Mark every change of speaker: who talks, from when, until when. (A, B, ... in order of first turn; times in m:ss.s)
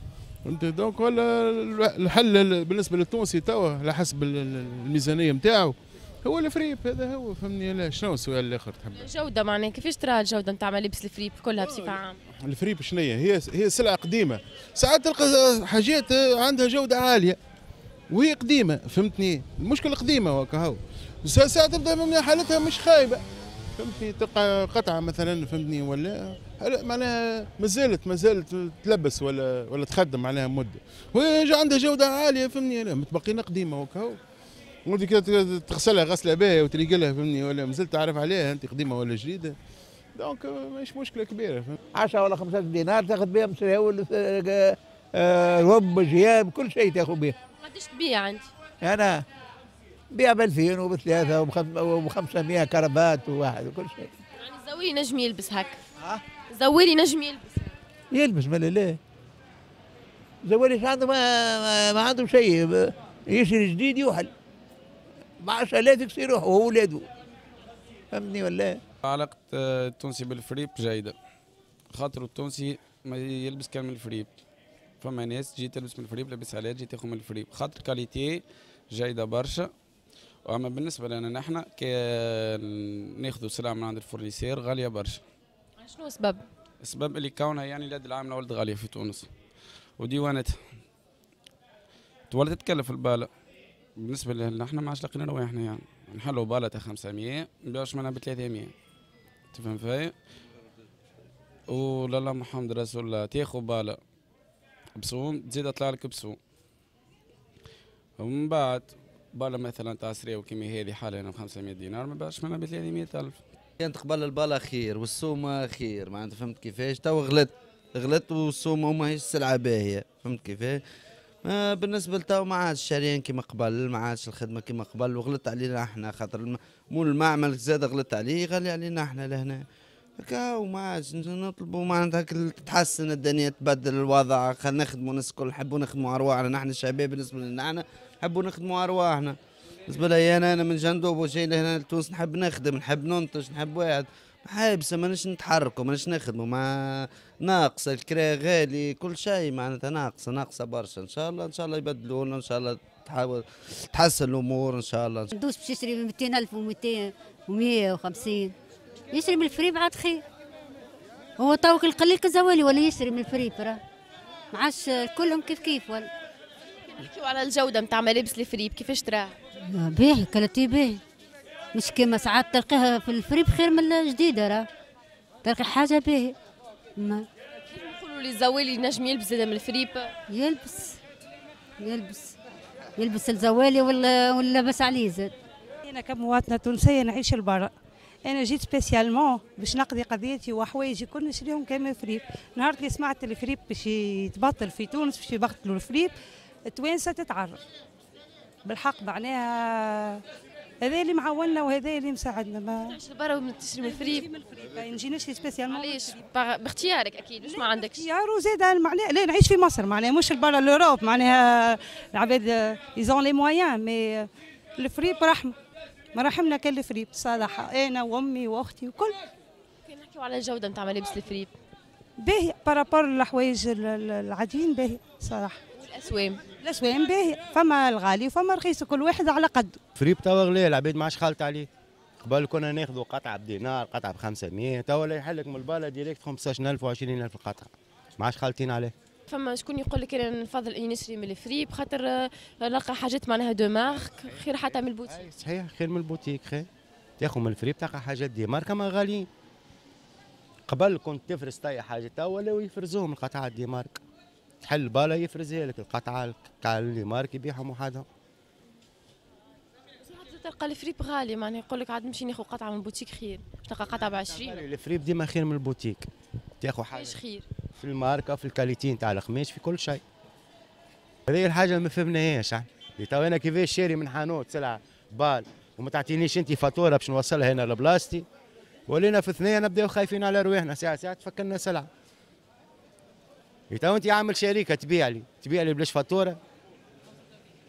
0:00.4-0:09.1 A
0:08.9-0:12.2 B
0:12.4-0:17.4 A
0:18.1-0:23.2 A
0:23.8-0:34.2 A
0:34.8-0:39.6 A
0:40.1-0:41.8 A
0:42.0-0:44.5 C
0:45.3-0:47.3 C
0:47.6-0:48.5 B
0:48.8-0:49.2 C
0:50.2-0:54.1 C
0:54.4-0:55.8 B
0:56.5-0:57.8 B
0:58.2-0:58.9 C
1:00.5-1:02.6 C
1:03.4-1:04.3 C
1:05.4-1:07.0 C
1:08.2-1:08.7 C
1:09.0-1:11.1 D
1:11.9-1:14.3 D
1:15.0-1:19.7 D
1:20.4-1:25.2 D
1:25.8-1:26.4 B
1:26.8-1:29.3 D
1:30.0-1:30.6 D
1:32.3-1:33.3 D
1:34.0-1:38.7 D
1:39.5-1:40.1 D
1:41.7-1:44.0 D
1:45.0-1:46.4 D
1:48.2-1:53.4 D
1:53.8-2:00.8 E
2:01.4-2:09.6 E
2:10.2-2:19.4 E
2:19.9-2:26.7 E
2:27.4-2:35.3 E
2:35.3-2:38.5 F
2:39.1-2:40.2 F
2:41.4-2:43.8 F
2:44.5-2:46.1 F
2:47.0-2:49.3 B
2:49.7-2:51.0 F
2:51.7-2:54.7 F
2:55.4-2:56.4 F
2:57.0-2:57.3 F
2:57.7-3:00.1 B
3:00.3-3:01.0 F
3:01.8-3:02.3 F
3:03.0-3:05.3 F
3:05.9-3:07.7 G
3:08.2-3:16.1 G
3:16.7-3:17.6 G
3:18.6-3:20.2 G
3:20.8-3:23.0 G
3:22.8-3:24.3 B
3:23.8-3:26.2 G
3:25.7-3:28.0 B
3:27.4-3:35.6 G
3:36.1-3:39.2 G
3:39.9-3:41.5 B
3:42.2-3:45.6 G
3:45.8-3:46.4 B
3:46.6-3:49.8 G
3:50.0-3:51.7 H
3:52.2-3:58.9 H
3:59.3-4:05.2 B
4:05.1-4:06.7 H
4:07.2-4:09.3 H
4:10.7-4:14.0 H
4:14.6-4:18.0 H
4:20.0-4:24.6 B
4:23.9-4:26.1 H
4:26.6-4:27.1 H
4:26.9-4:27.4 B
4:27.8-4:30.0 H
4:31.3-4:38.2 H
4:38.9-4:41.9 H
4:43.7-4:46.4 H